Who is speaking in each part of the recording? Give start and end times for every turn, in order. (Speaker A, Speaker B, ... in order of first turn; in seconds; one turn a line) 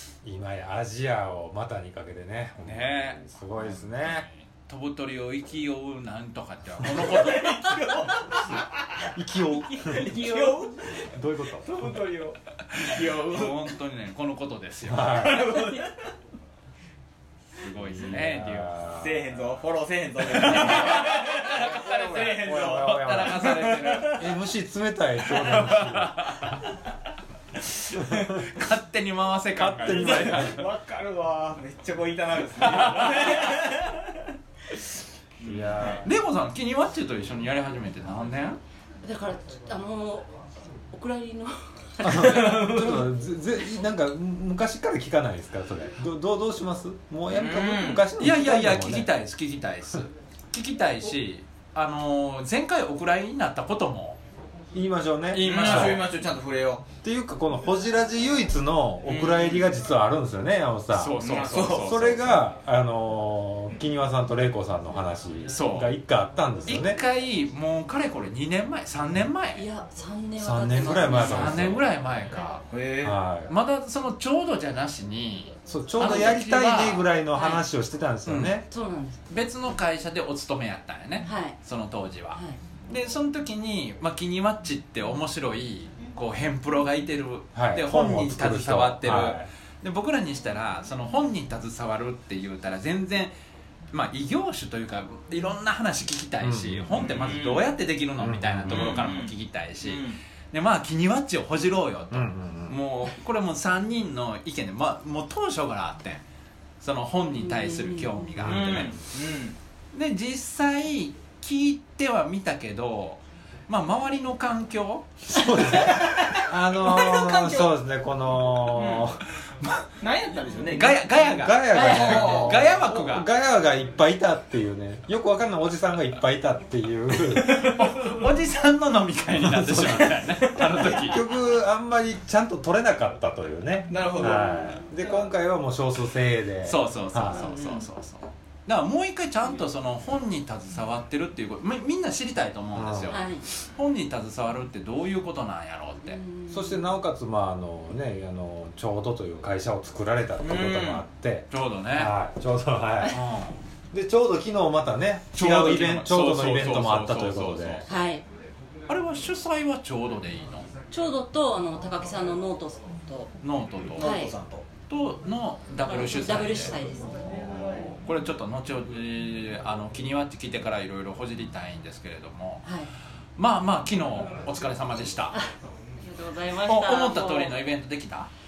Speaker A: 0.2-4.3
Speaker B: 2.6-7.8
Speaker C: 6.8-8.6
Speaker A: 9.1-10.4
Speaker C: 9.7-11.0
Speaker A: 11.1-12.0
Speaker C: 11.6-13.7
Speaker B: 12.8-15.4
Speaker A: 14.8-15.5
Speaker C: 15.1-15.9
Speaker D: 15.5-15.8
Speaker B: 17.6-18.8
Speaker A: 17.8-19.4
Speaker C: 19.0-24.2
Speaker B: 20.3-24.3
Speaker A: 20.8-26.4
Speaker B: 25.3-26.6
Speaker A: 27.9-28.3
Speaker B: 28.2-30.6
Speaker A: 29.6-30.6
Speaker C: 29.9-34.1
Speaker B: 32.6-33.4
Speaker C: 35.4-36.0
Speaker A: 35.4-36.1
Speaker B: 36.0-38.6
Speaker D: 39.0-40.3
Speaker D: 40.9-42.5
Speaker A: 42.0-49.1
Speaker C: 42.1-43.1
Speaker C: 47.3-48.1
Speaker B: 48.1-54.2
Speaker A: 54.7-56.0
Speaker B: 55.3-56.1
Speaker C: 55.4-56.9
Speaker A: 57.0-67.0
Speaker C: 59.0-59.7
Speaker B: 60.9-62.3
Speaker C: 61.2-61.9
Speaker B: 65.5-65.9
Speaker B: 66.7-69.6
Speaker D: 69.5-71.7
Speaker A: 70.4-71.8
Speaker B: 70.9-72.7
Speaker C: 72.7-73.2
Speaker A: 73.0-73.5
Speaker B: 73.5-77.1
Speaker A: 75.7-78.6
Speaker D: 77.3-77.6
Speaker B: 78.2-78.6
Speaker D: 78.7-79.2
Speaker B: 79.3-93.3
Speaker D: 81.2-81.5
Speaker A: 87.5-89.5
Speaker B: 93.9-106.2
Speaker A: 96.4-97.0
Speaker C: 96.9-97.7
Speaker A: 98.2-99.2
Speaker C: 98.7-100.2
Speaker A: 102.1-102.8
Speaker B: 106.8-109.0
Speaker D: 107.4-108.3
Speaker A: 108.4-108.9
Speaker C: 108.4-109.5
Speaker B: 109.9-115.1
Speaker A: 115.3-119.2
Speaker C: 115.9-117.7
Speaker C: 118.7-119.1
Speaker C: 120.0-121.0
Speaker B: 120.7-123.3
Speaker A: 121.3-127.8
Speaker C: 121.7-122.8
Speaker D: 121.7-122.0
Speaker B: 127.3-131.2
Speaker A: 129.4-137.6
Speaker C: 133.9-134.6
Speaker B: 136.6-146.2
Speaker D: 137.4-137.8
Speaker A: 142.7-143.2
Speaker D: 143.1-143.4
Speaker D: 146.1-146.8
Speaker A: 146.5-153.2
Speaker C: 150.4-151.0
Speaker B: 151.5-152.1
Speaker B: 153.1-153.6
Speaker A: 153.9-157.8
Speaker B: 155.3-157.8
Speaker D: 157.9-158.2
Speaker B: 158.9-160.7
Speaker D: 160.9-163.3
Speaker B: 163.4-164.0
Speaker C: 163.9-164.7
Speaker D: 164.0-164.3
Speaker B: 164.9-166.7
Speaker D: 165.8-167.1
Speaker B: 167.7-172.6
Speaker D: 172.6-172.9
Speaker B: 173.4-175.3
Speaker D: 176.0-177.5
Speaker B: 176.7-178.3